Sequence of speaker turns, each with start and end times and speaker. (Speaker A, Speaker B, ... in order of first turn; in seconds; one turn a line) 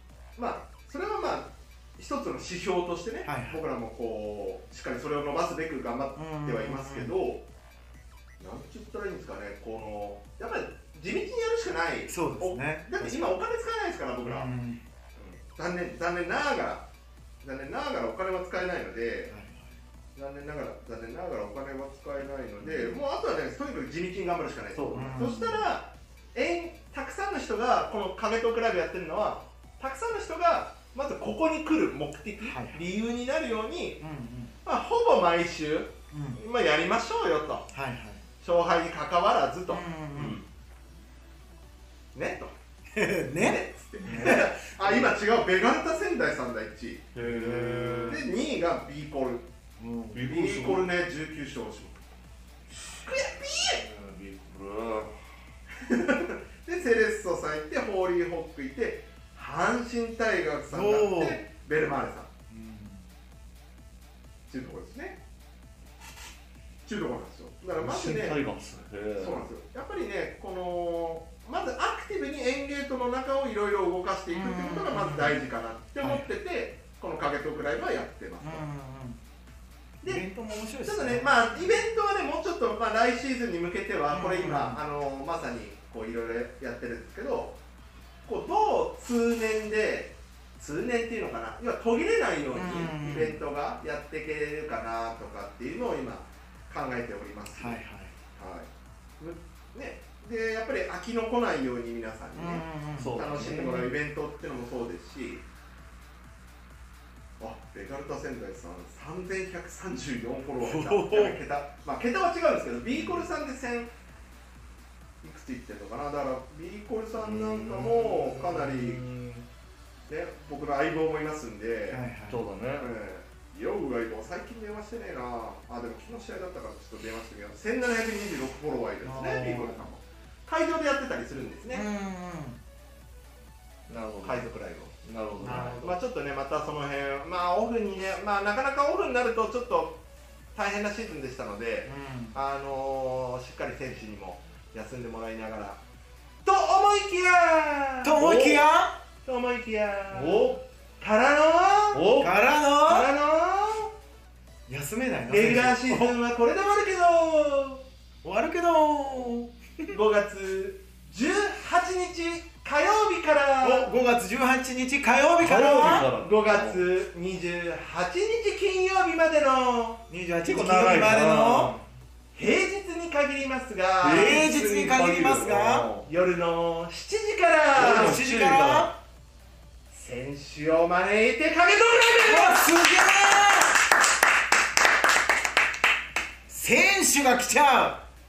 Speaker A: 0.3-7.4
Speaker B: 3.2-3.6
Speaker B: 6.2-7.1
Speaker A: 8.4-14.5
Speaker B: 12.1-13.3
Speaker B: 14.2-14.8
Speaker A: 15.2-16.8
Speaker A: 17.4-19.3
Speaker B: 19.3-19.7
Speaker A: 20.1-34.0
Speaker B: 22.6-22.9
Speaker C: 24.7-25.1
Speaker B: 24.9-25.6
Speaker B: 32.4-32.8
Speaker B: 34.0-34.5
Speaker A: 34.6-37.7
Speaker B: 36.1-36.4
Speaker B: 37.7-38.2
Speaker A: 38.4-40.5
Speaker B: 39.7-40.4
Speaker A: 42.1-42.5
Speaker B: 42.9-44.5
Speaker A: 43.4-49.5
Speaker C: 44.0-44.5
Speaker C: 47.1-48.2
Speaker B: 49.8-50.2
Speaker C: 50.1-50.9
Speaker A: 50.1-52.0
Speaker A: 53.0-53.8
Speaker C: 53.6-55.2
Speaker A: 55.8-62.3
Speaker B: 60.7-61.4
Speaker B: 62.5-63.0
Speaker A: 64.5-65.2
Speaker A: 66.8-68.4
Speaker C: 67.8-69.5
Speaker A: 69.2-78.6
Speaker B: 74.3-75.4
Speaker B: 76.0-76.3
Speaker B: 78.4-79.2
Speaker B: 80.0-81.8
Speaker A: 80.8-87.6
Speaker B: 84.1-84.8
Speaker A: 88.2-97.8
Speaker B: 92.5-93.4
Speaker B: 97.5-98.1
Speaker A: 98.3-98.7
Speaker A: 99.2-105.4
Speaker B: 102.3-103.2
Speaker C: 103.0-103.9
Speaker A: 107.4-113.9
Speaker B: 110.6-111.4
Speaker C: 113.0-113.2
Speaker A: 115.2-119.0
Speaker C: 117.2-119.4
Speaker A: 120.1-122.0
Speaker B: 121.9-122.4
Speaker C: 122.3-122.9
Speaker A: 122.8-131.8
Speaker B: 129.0-129.8
Speaker B: 131.7-132.6
Speaker C: 133.9-134.5
Speaker A: 134.2-140.0
Speaker C: 135.0-135.8
Speaker B: 135.4-135.9
Speaker A: 140.5-145.8
Speaker B: 141.8-142.4
Speaker A: 146.4-148.7
Speaker B: 148.0-149.0
Speaker A: 149.2-152.1
Speaker C: 150.1-150.6
Speaker C: 151.9-152.3
Speaker B: 152.2-153.1
Speaker A: 152.8-153.9
Speaker B: 154.7-156.1
Speaker A: 155.3-157.8
Speaker B: 158.2-159.9
Speaker A: 159.9-163.9
Speaker B: 163.6-166.1
Speaker C: 165.4-166.9
Speaker A: 166.0-170.0
Speaker B: 170.1-171.7
Speaker C: 170.4-171.8
Speaker A: 172.3-175.0
Speaker C: 174.0-176.1
Speaker B: 174.0-175.9
Speaker A: 176.0-178.2
Speaker C: 177.7-178.9
Speaker B: 177.8-179.0
Speaker A: 179.9-182.7
Speaker B: 182.2-183.8
Speaker B: 186.5-188.0